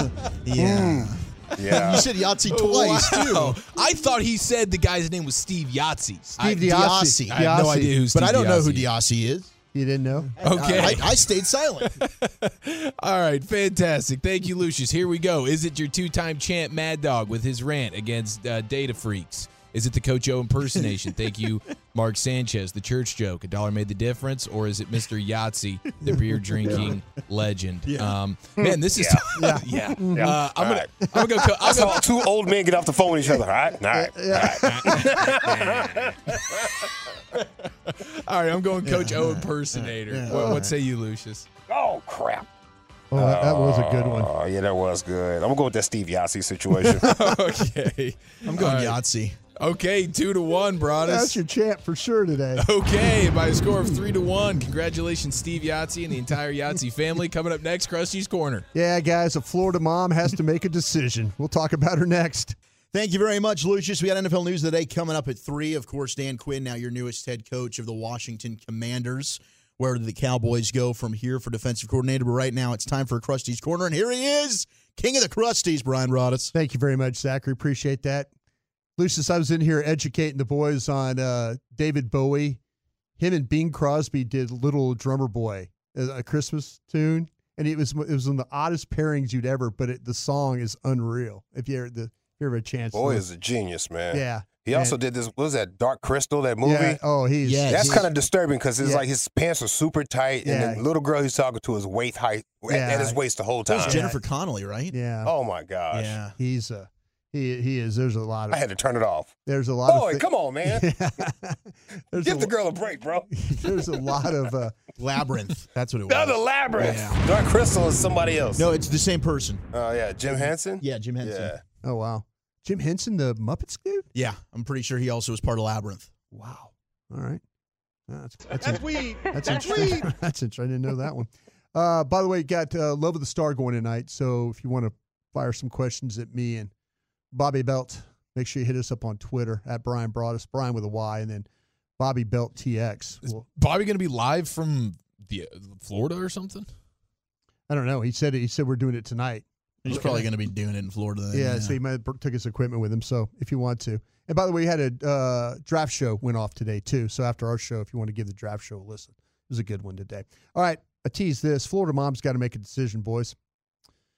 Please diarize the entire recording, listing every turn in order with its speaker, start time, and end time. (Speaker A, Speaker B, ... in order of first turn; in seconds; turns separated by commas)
Speaker A: 0.4-3.6, Speaker B: 0.6-1.1, Speaker C: 1.6-2.0, Speaker D: 1.7-6.6, Speaker B: 6.4-7.9, Speaker A: 6.4-9.5, Speaker D: 7.3-8.9, Speaker B: 9.7-10.3, Speaker A: 10.4-11.9, Speaker D: 10.4-11.3, Speaker D: 11.8-32.0, Speaker B: 26.0-26.9, Speaker A: 27.9-28.2, Speaker C: 28.6-29.4, Speaker B: 29.3-30.4, Speaker C: 29.9-31.0, Speaker B: 31.0-31.8, Speaker C: 31.6-36.7, Speaker B: 33.9-35.2, Speaker D: 34.5-36.3, Speaker D: 37.4-41.5, Speaker A: 38.8-40.7, Speaker B: 40.3-40.6, Speaker C: 41.7-42.5, Speaker B: 43.1-44.3, Speaker C: 43.1-47.2, Speaker D: 47.0-49.0, Speaker A: 48.4-49.4, Speaker D: 49.5-51.4, Speaker B: 51.0-52.6, Speaker D: 52.6-58.7, Speaker B: 58.7-62.5, Speaker A: 62.9-76.5, Speaker B: 76.5-78.3, Speaker B: 79.0-82.6, Speaker B: 83.2-93.2, Speaker C: 92.9-97.0, Speaker B: 94.1-95.0, Speaker B: 96.6-98.1, Speaker A: 97.4-98.0, Speaker C: 97.7-104.0, Speaker B: 100.4-100.8, Speaker B: 102.7-103.2, Speaker B: 103.8-104.2, Speaker A: 103.8-104.9, Speaker B: 104.9-105.3, Speaker C: 105.2-106.2, Speaker A: 105.9-106.3, Speaker B: 106.3-108.6, Speaker C: 108.5-110.9, Speaker B: 109.5-112.5, Speaker C: 112.2-113.7, Speaker B: 113.3-114.8, Speaker A: 115.0-117.2, Speaker C: 116.1-118.7, Speaker A: 118.6-119.6, Speaker C: 119.7-121.6, Speaker A: 120.8-121.5, Speaker B: 121.8-124.1, Speaker A: 124.1-126.1, Speaker B: 126.3-127.4, Speaker B: 128.1-136.7, Speaker A: 128.6-130.1, Speaker B: 137.3-141.4, Speaker B: 142.0-143.4, Speaker D: 143.2-146.7, Speaker B: 147.7-150.3, Speaker A: 149.8-151.8, Speaker B: 151.3-163.3